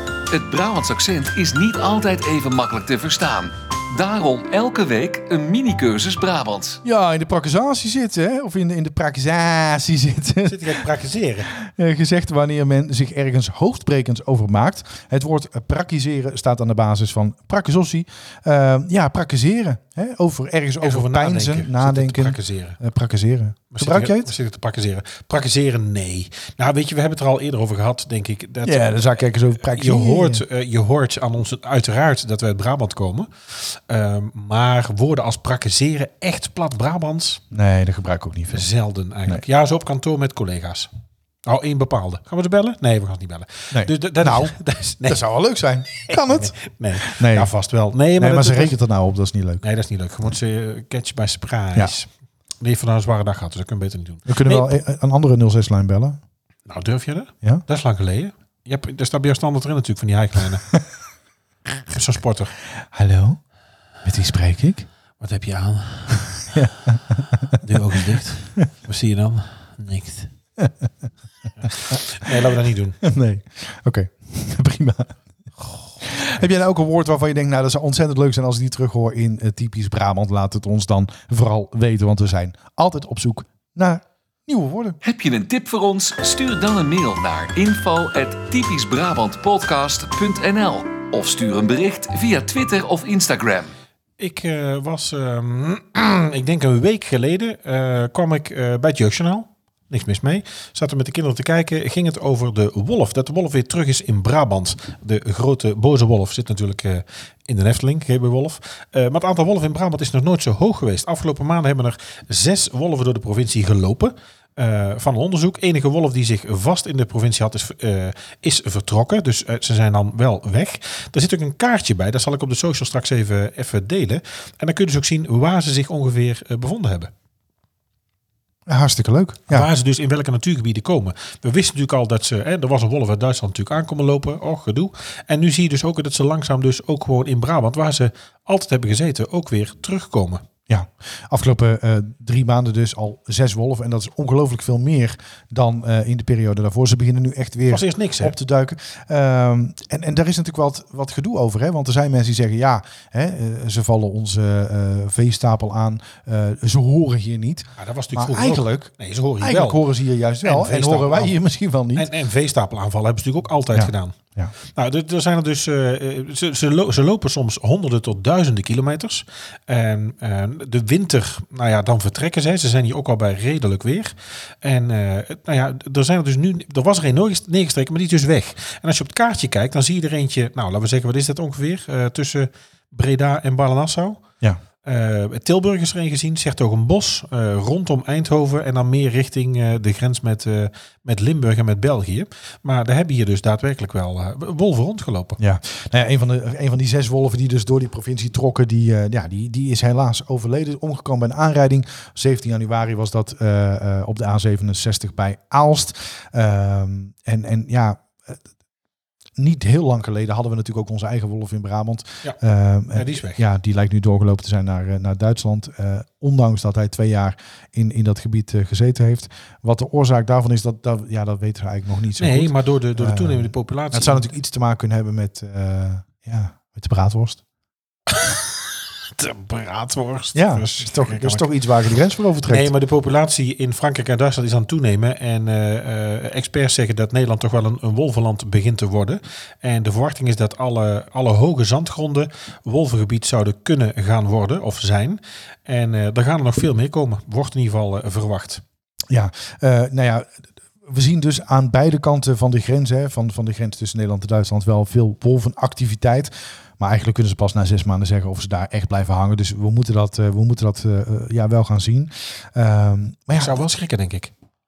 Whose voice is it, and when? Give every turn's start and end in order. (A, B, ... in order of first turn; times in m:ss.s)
0:00.3-0:06.8 A
0:06.8-0:10.9 B
0:10.5-0:11.5 C
0:11.5-0:24.3 B
0:20.8-0:22.8 C
0:23.7-0:37.4 C
0:28.6-0:30.4 B
0:37.5-0:38.7 B
0:38.5-0:40.9 C
0:41.5-0:45.2 C
0:43.7-0:47.5 B
0:46.1-0:48.8 C
0:48.2-0:49.6 B
0:49.6-0:52.1 C
0:52.6-0:54.8 C
0:54.3-0:56.2 B
0:56.7-1:00.7 C
1:01.9-1:02.6 C
1:02.9-1:03.4 B
1:04.0-1:04.9 B
1:05.2-1:06.7 C
1:06.5-1:07.8 B
1:07.6-1:10.3 C
1:10.6-1:10.9 B
1:11.6-1:13.0 C
1:11.9-1:12.4 B
1:13.0-1:15.2 B
1:15.6-1:16.3 C
1:16.0-1:25.0 B
1:25.0-1:33.7 A
1:34.2-2:07.1 C
2:08.7-2:09.7 B
2:09.5-2:20.4 C
2:20.7-2:42.1 B
2:27.7-2:28.4 C
2:37.8-2:39.8 C
2:40.4-2:41.4 C
2:42.0-2:44.2 C
2:43.7-2:44.5 B
2:44.8-3:04.2 C
3:04.8-3:15.4 C
3:15.4-3:28.4 B
3:29.4-3:47.4 B
3:32.9-3:33.4 C
3:42.2-3:44.3 C
3:48.1-3:51.5 C
3:50.4-3:52.7 B
3:52.5-4:08.6 C
4:09.1-4:23.6 B
4:23.4-4:24.3 C